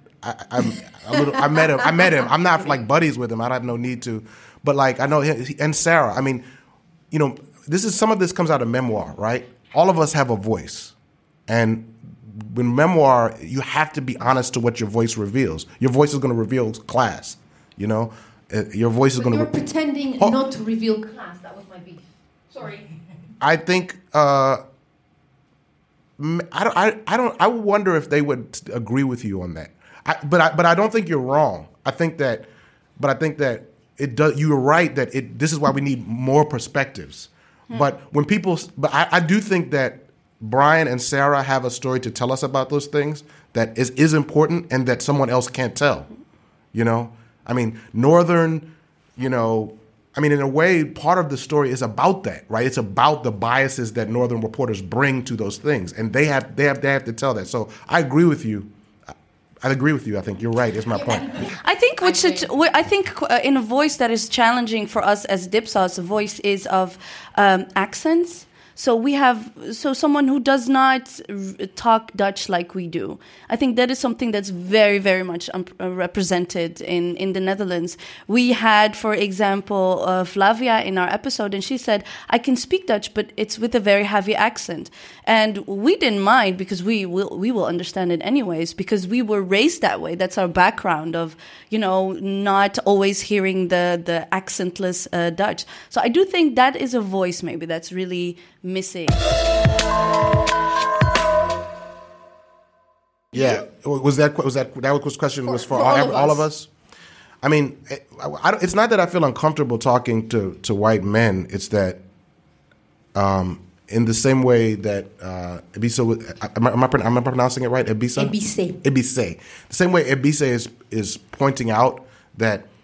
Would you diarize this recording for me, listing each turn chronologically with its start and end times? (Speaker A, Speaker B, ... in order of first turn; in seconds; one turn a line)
Speaker A: 0.2-6.4
Speaker B: 1.5-2.1
Speaker A: 7.1-10.9
Speaker A: 11.5-19.5
Speaker B: 19.1-22.8
Speaker A: 23.4-24.6
Speaker A: 26.2-32.5
Speaker A: 33.0-46.1
Speaker A: 46.7-58.7
Speaker A: 59.6-61.4
Speaker B: 61.0-62.5
Speaker C: 61.6-99.2
Speaker A: 103.3-106.7
Speaker B: 105.5-106.4
Speaker A: 107.4-112.0
Speaker A: 113.1-122.7
Speaker B: 118.2-118.8